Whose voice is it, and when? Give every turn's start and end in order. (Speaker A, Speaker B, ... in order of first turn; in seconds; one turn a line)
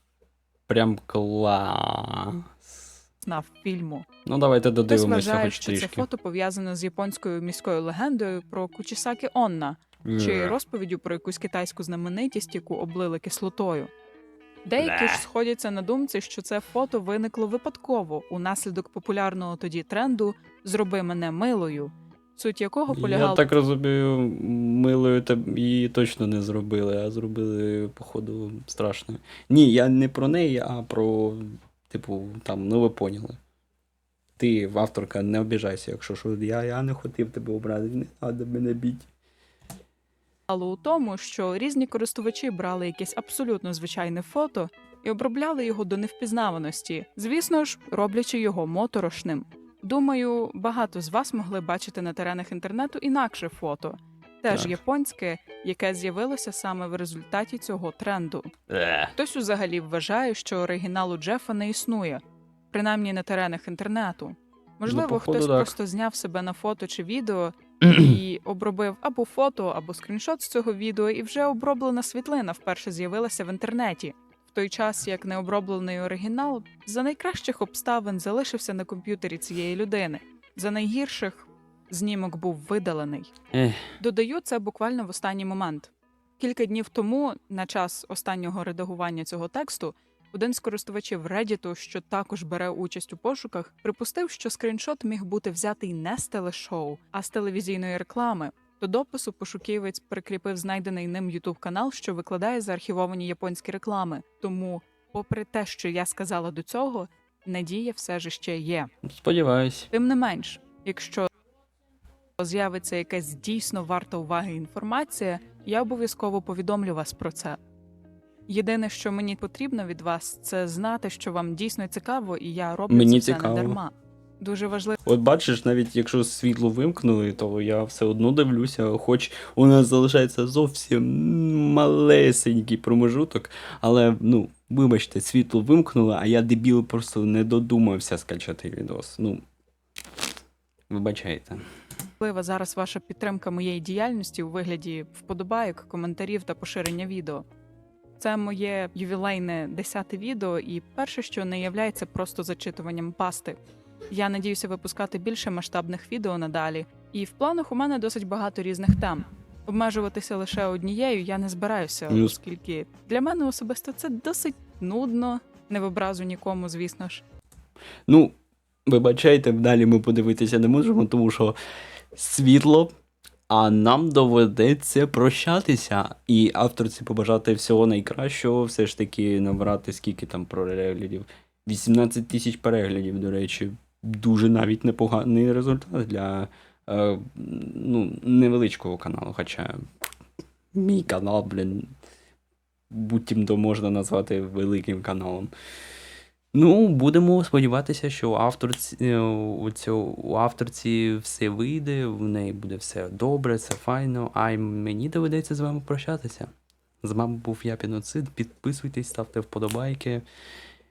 Speaker A: 0.7-2.9
Speaker B: 3.2-4.1
Speaker A: 4.2-6.0
Speaker B: 4.9-13.9
Speaker A: 10.0-10.6
Speaker B: 14.7-23.4
Speaker A: 14.8-15.2
Speaker A: 22.9-33.4
Speaker A: 34.4-39.1
Speaker B: 40.5-58.5
Speaker A: 54.5-54.8
Speaker A: 58.7-59.1
Speaker B: 59.1-83.3
Speaker A: 64.9-65.7
Speaker A: 83.5-84.0
Speaker B: 84.0-108.9
Speaker A: 109.0-109.9
Speaker B: 109.9-111.3
Speaker B: 112.4-117.6
Speaker B: 118.5-125.0
Speaker A: 122.9-123.8
Speaker A: 125.0-139.4
Speaker A: 140.9-141.6
Speaker B: 142.2-147.4
Speaker B: 148.2-167.2
Speaker A: 162.1-162.4
Speaker A: 168.1-171.6
Speaker A: 172.1-172.9
Speaker A: 173.5-189.8
Speaker A: 190.7-191.9
Speaker A: 192.9-195.5
Speaker A: 196.5-210.2